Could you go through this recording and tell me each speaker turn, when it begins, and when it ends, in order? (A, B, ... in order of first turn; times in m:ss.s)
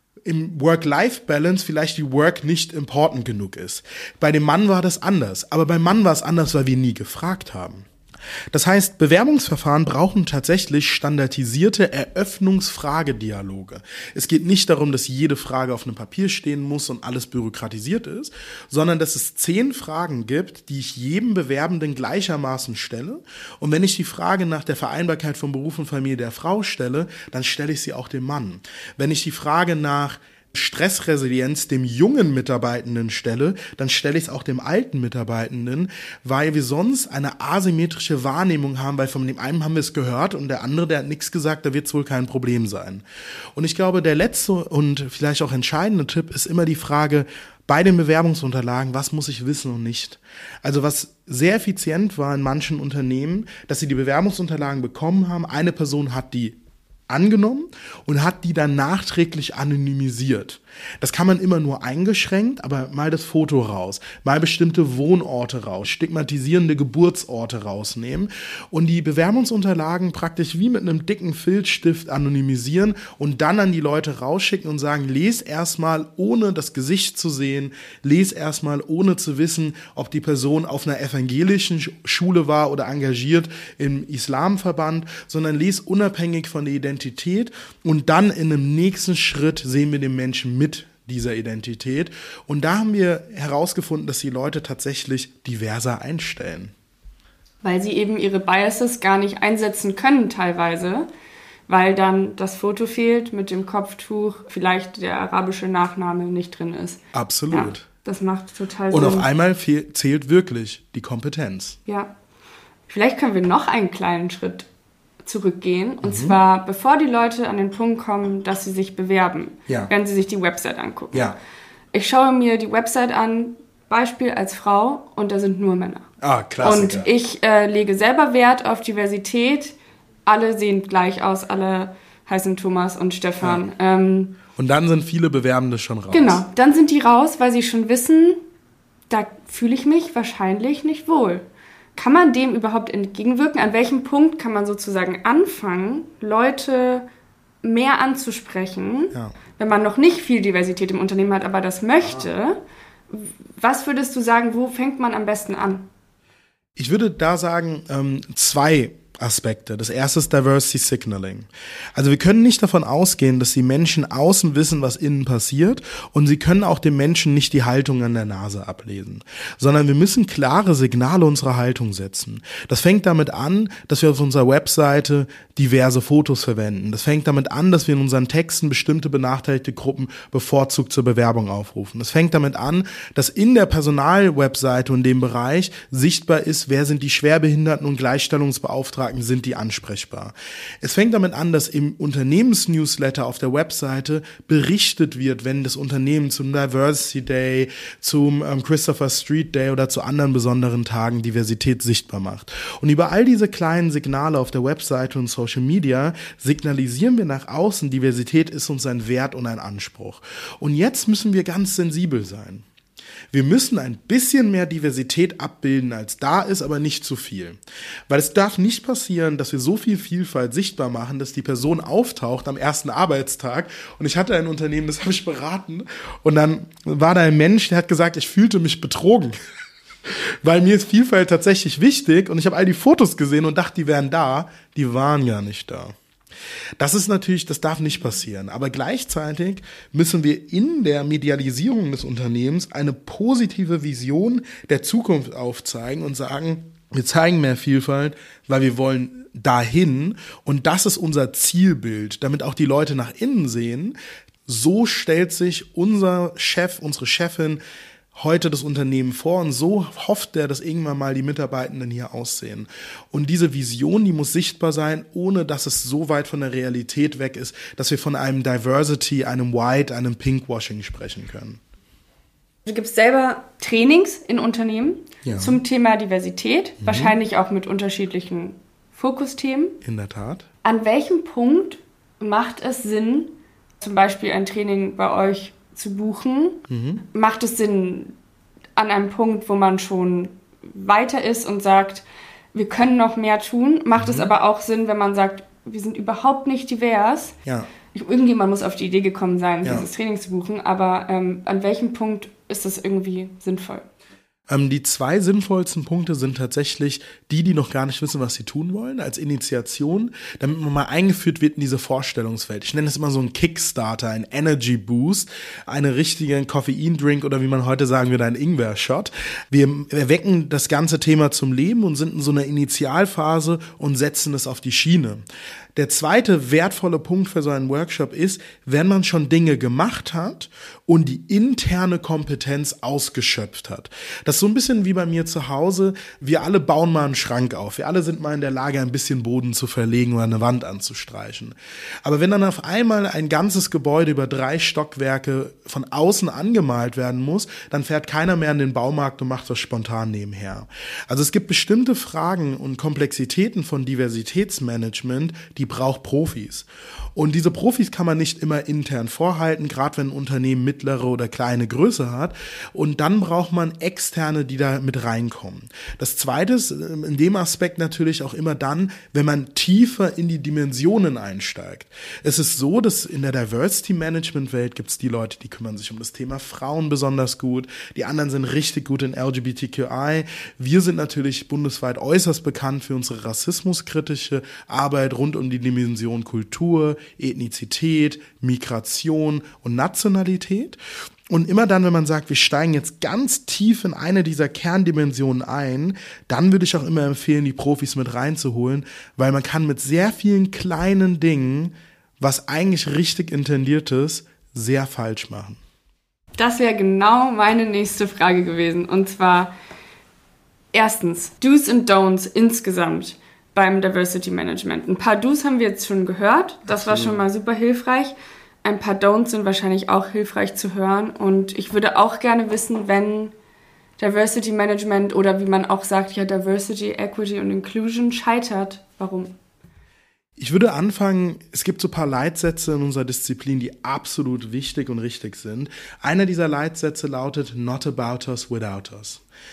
0:00.2-0:07.9 A
0:08.5-0:43.0 A
0:43.6-0:56.6 A
0:57.1-1:36.7 A
1:37.6-1:41.1 B
1:41.7-1:49.3 B
1:47.1-1:47.9 A
1:48.9-1:51.8 A
1:51.9-1:52.1 B
1:52.9-1:54.7 B
1:55.2-2:01.4 B
1:56.0-1:56.4 A
2:01.9-2:06.1 B
2:06.2-2:07.1 A
2:06.6-2:14.4 B
2:14.6-2:16.4 A
2:16.1-2:18.4 B
2:19.1-2:27.1 B
2:27.6-2:35.9 B
2:36.8-3:32.6 A
3:33.3-3:49.4 A
3:50.1-3:56.0 A
3:56.8-4:14.0 A
4:14.5-4:17.6 A
4:18.2-4:31.6 A
4:32.6-4:39.8 B
4:35.2-4:35.6 A
4:36.8-4:37.2 A
4:39.8-4:40.5 A
4:40.6-4:48.2 B
4:46.7-4:47.0 A
4:48.8-4:57.4 B
4:54.0-4:54.3 A
4:57.4-4:57.7 A
4:57.9-5:03.8 B
5:04.5-5:25.2 A
5:25.8-6:30.8 A
6:31.3-6:45.6 A
6:46.4-6:49.5 B
6:50.7-7:03.3 B
6:56.7-6:57.2 A
7:04.0-7:09.3 B
7:10.4-7:19.2 A